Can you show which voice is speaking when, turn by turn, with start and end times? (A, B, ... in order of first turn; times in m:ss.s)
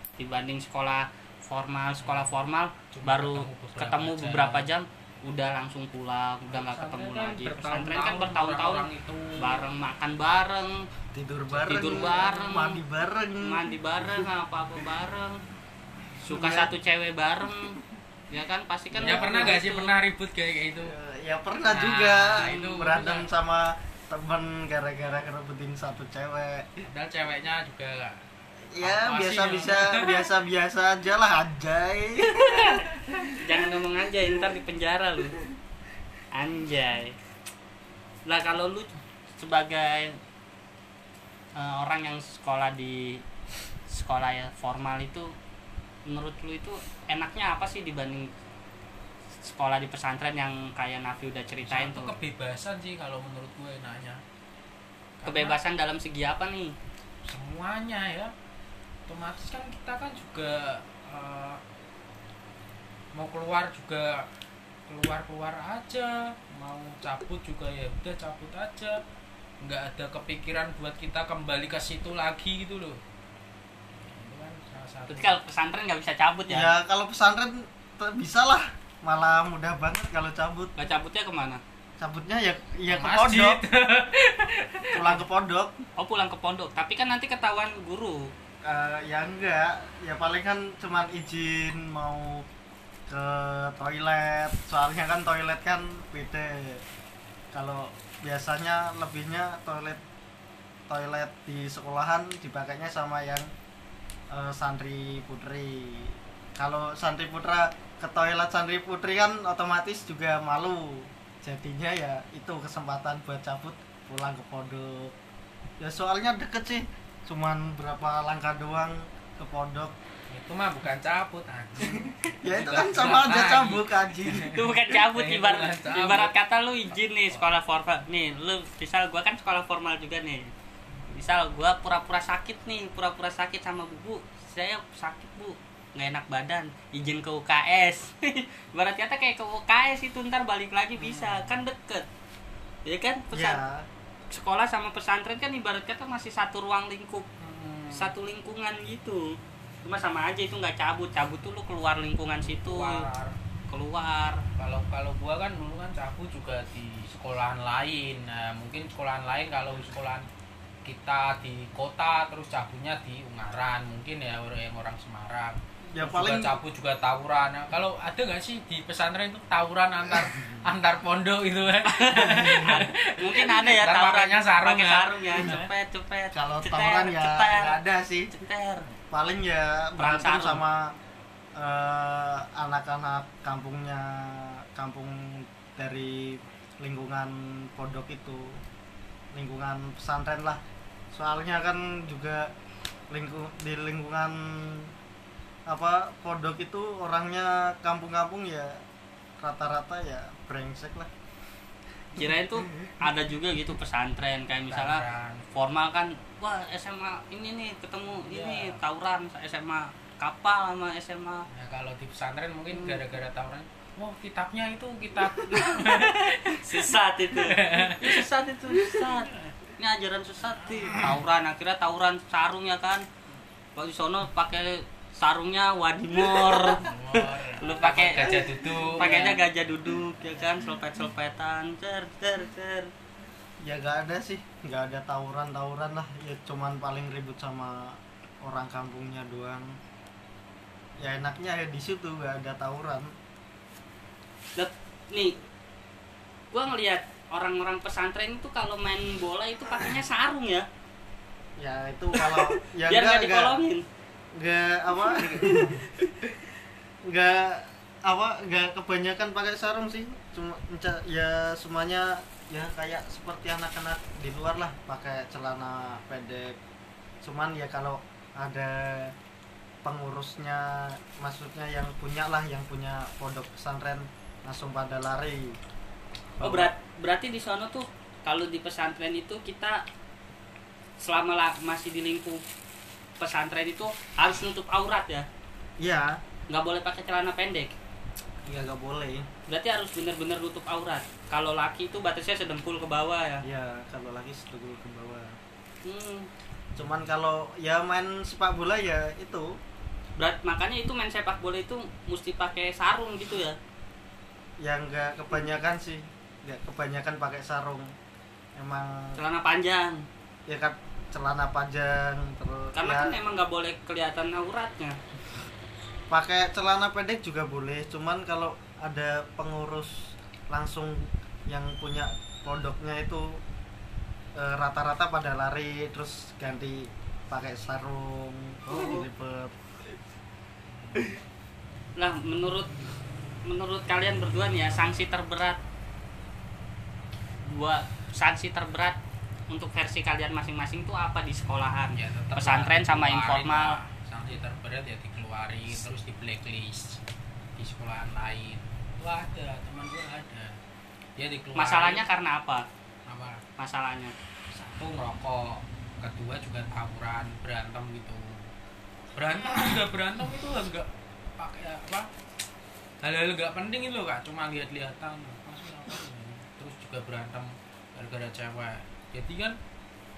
0:00.2-0:08.8 A
0:02.0-0:02.3 B
0:02.9-0:04.7 B
0:06.5-0:09.7 B
0:09.4-0:10.8 A
0:11.1-0:13.7 C
0:11.5-0:12.2 B
0:11.7-0:12.8 A
0:13.4-0:15.4 A
0:16.2-0:19.9 A
0:16.3-0:16.7 C
0:19.0-0:19.6 C
0:19.0-0:21.0 B
0:20.8-0:26.8 C
0:21.7-0:23.3 B
0:22.4-0:22.7 A
0:26.8-0:30.3 B
0:28.7-0:32.9 C
0:33.4-0:35.4 A
0:36.3-0:37.1 A
0:38.3-0:40.2 A
0:41.6-0:43.2 A
0:43.9-0:45.3 A
0:46.1-0:48.3 A
0:49.4-0:52.1 A
0:51.6-0:54.2 B
0:55.2-0:55.6 B
0:55.2-0:56.7 A
0:57.2-0:58.3 B
0:59.1-1:01.6 B
1:03.1-1:04.3 B
1:04.9-1:09.0 B
1:09.6-1:13.0 B
1:13.9-1:15.4 B
1:15.1-1:16.7 A
1:16.5-1:20.7 C
1:20.8-1:21.6 A
1:22.0-1:23.6 C
1:22.9-1:25.2 B
1:24.9-1:25.8 C
1:26.0-1:28.3 A
1:28.6-1:32.4 C
1:33.1-1:36.8 C
1:37.5-1:40.0 C
1:40.9-1:43.5 C
1:44.3-1:55.1 C
1:55.8-1:59.9 C
2:00.3-2:06.3 B
2:01.8-2:04.6 C
2:04.4-2:10.5 A
2:11.1-2:22.0 A
2:21.0-2:21.4 B
2:22.8-2:23.6 A
2:23.3-2:23.8 C
2:24.3-2:27.2 A
2:27.4-2:28.1 B
2:27.9-2:33.1 A
2:32.5-2:33.4 B
2:33.7-2:34.4 A
2:34.6-2:40.2 B
2:40.8-2:55.7 B
2:45.9-2:46.6 C
2:51.9-2:57.8 A
2:56.3-2:58.3 C
2:58.3-2:58.9 A
2:59.1-3:00.9 C
3:00.0-3:00.6 A
3:01.6-3:08.6 C
3:09.3-3:10.6 C
3:11.1-3:12.5 C
3:13.1-3:14.9 C
3:15.7-3:18.8 C
3:19.4-3:21.1 C
3:22.2-3:31.5 A
3:24.7-3:25.4 B
3:28.2-3:28.8 B
3:31.5-3:38.3 B
3:32.7-3:33.0 A
3:35.4-3:43.0 A
3:43.8-3:48.4 A
3:46.7-3:49.4 B
3:49.0-3:52.9 A
3:53.6-3:59.8 C
4:01.0-4:03.1 C
4:04.6-4:05.3 A
4:06.5-4:10.7 A
4:11.6-4:13.6 C
4:12.2-4:13.8 A
4:14.4-4:16.4 C
4:17.1-4:26.6 C
4:27.2-4:29.1 C
4:29.8-4:35.6 C
4:36.4-4:36.7 C
4:36.4-4:39.8 A
4:41.0-4:42.4 A
4:43.2-4:45.3 A
4:45.8-4:46.2 C
4:46.5-4:47.7 A
4:48.4-4:49.3 C
4:49.5-4:53.4 A
4:53.4-4:55.4 C
4:55.8-4:56.3 A
4:56.8-4:59.5 C
5:00.2-5:03.6 A
5:04.6-5:07.9 C
5:08.6-5:09.2 C
5:09.2-5:10.0 A
5:10.5-5:13.2 C
5:12.7-5:15.0 A
5:16.1-5:23.4 C
5:24.4-5:29.6 C
5:28.7-5:29.0 A
5:32.0-5:32.7 A
5:33.4-5:35.6 A
5:37.4-5:39.0 A
5:39.5-5:43.8 A
5:41.9-5:47.0 B
5:47.6-5:50.6 B
5:51.2-5:52.0 B
5:51.6-5:52.6 A
5:53.0-5:53.4 B
5:53.6-5:54.1 A
5:54.5-5:58.5 B
5:59.1-6:02.1 B
6:03.0-6:09.6 B